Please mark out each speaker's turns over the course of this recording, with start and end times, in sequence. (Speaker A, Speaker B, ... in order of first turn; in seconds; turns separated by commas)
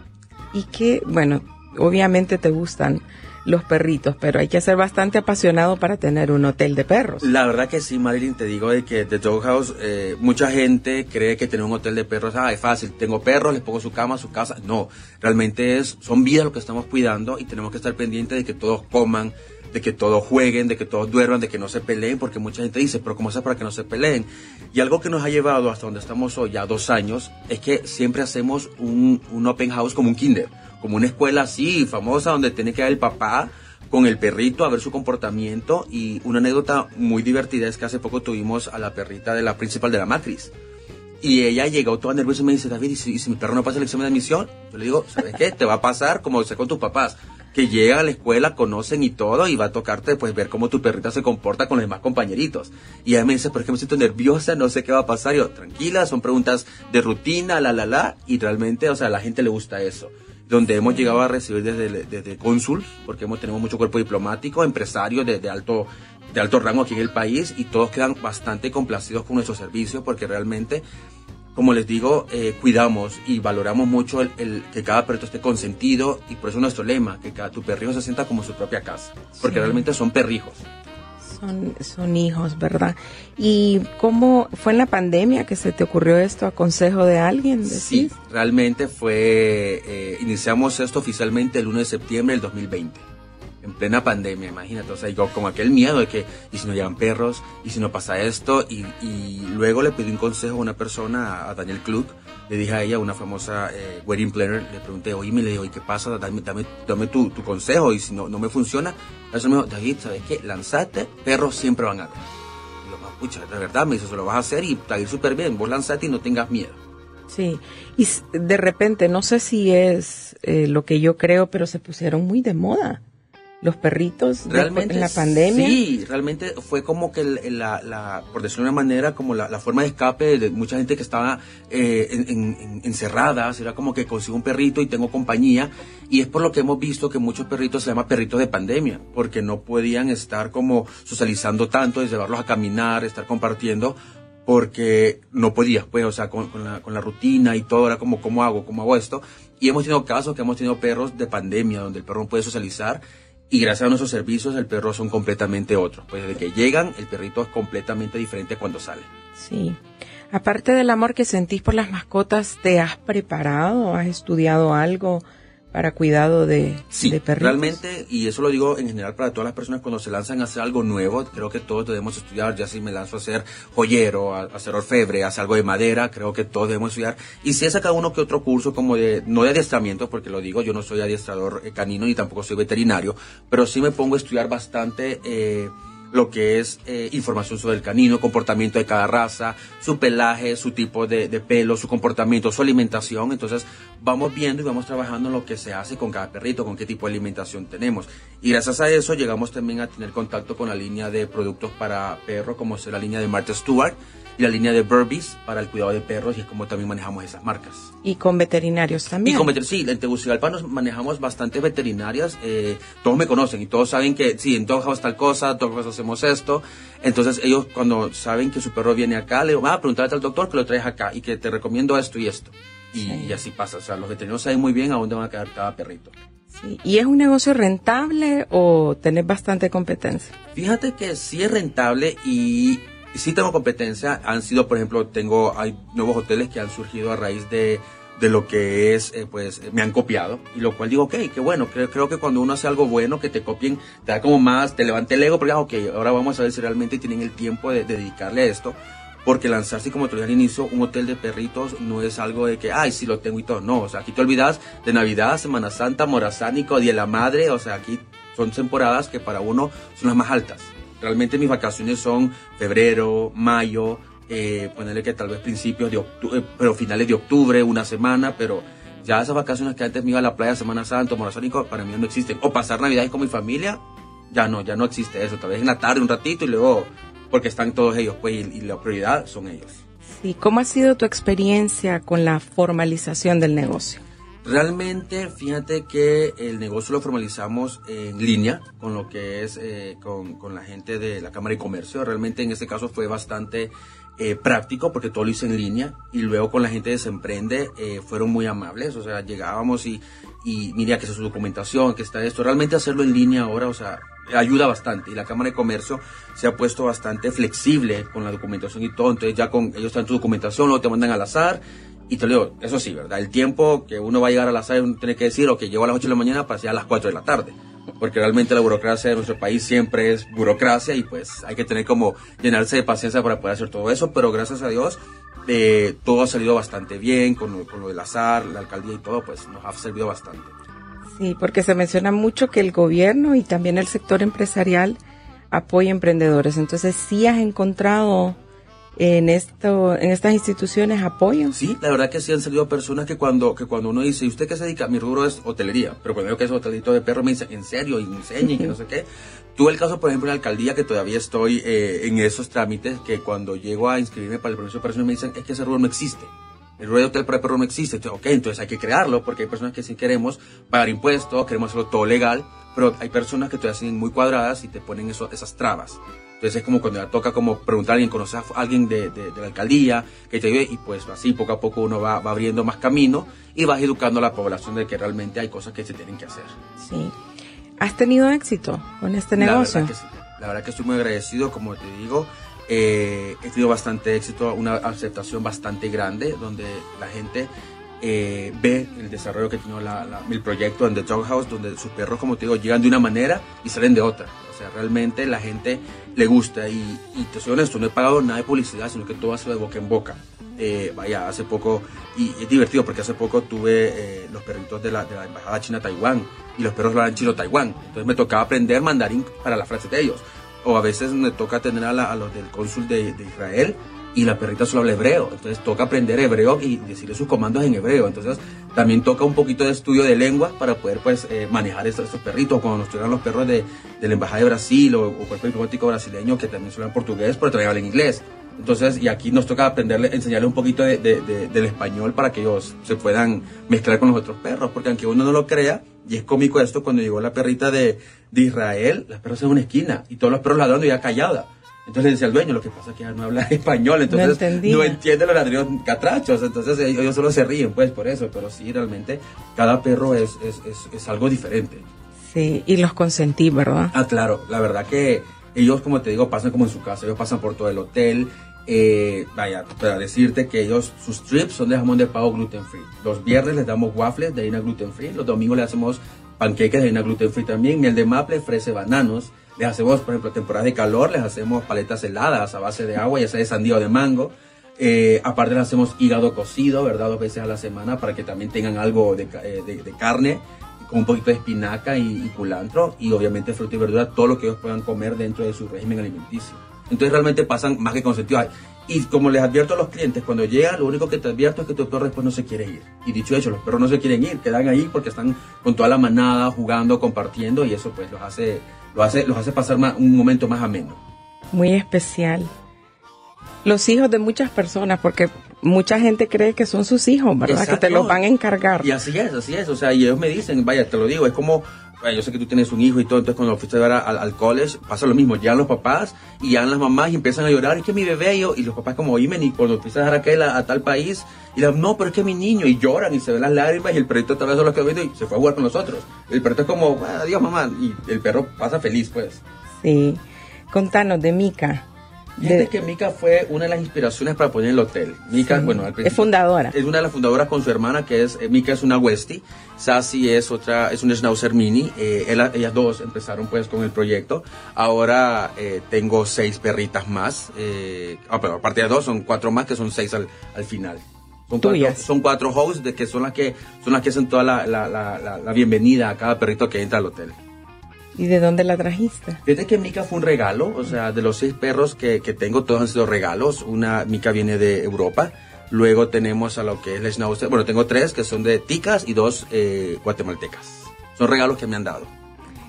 Speaker A: 0.5-7.2, Speaker B: 7.2-40.5, Speaker B: 41.2-70.8, Speaker A: 60.8-61.1, Speaker B: 71.5-80.6, Speaker A: 79.4-79.8, Speaker A: 81.2-88.1, Speaker B: 87.6-93.0, Speaker B: 93.6-112.2, Speaker B: 112.8-116.8, Speaker A: 117.3-123.0, Speaker A: 123.6-125.8, Speaker B: 124.5-159.1, Speaker A: 159.3-159.8, Speaker A: 160.3-167.8, Speaker B: 166.9-207.9, Speaker A: 208.0-209.5, Speaker B: 209.2-226.1, Speaker A: 223.0-223.4, Speaker A: 226.5-230.3, Speaker B: 230.5-279.8, Speaker A: 280.2-284.0, Speaker B: 284.4-330.5, Speaker A: 331.2-335.0, Speaker A: 335.5-338.4, Speaker A: 339.0-341.6, Speaker B: 341.5-376.5, Speaker A: 376.8-377.1, Speaker A: 377.8-379.9, Speaker B: 379.4-387.5, Speaker B: 388.0-451.9, Speaker A: 444.1-445.0, Speaker A: 452.3-453.9, Speaker B: 453.9-501.0, Speaker A: 501.5-502.5, Speaker A: 503.6-508.9, Speaker B: 507.5-508.2, Speaker B: 508.8-529.4, Speaker A: 529.8-531.9, Speaker A: 532.4-532.7, Speaker B: 532.4-557.4, Speaker A: 535.4-536.7, Speaker A: 551.6-552.0, Speaker A: 558.1-559.4, Speaker B: 559.4-572.1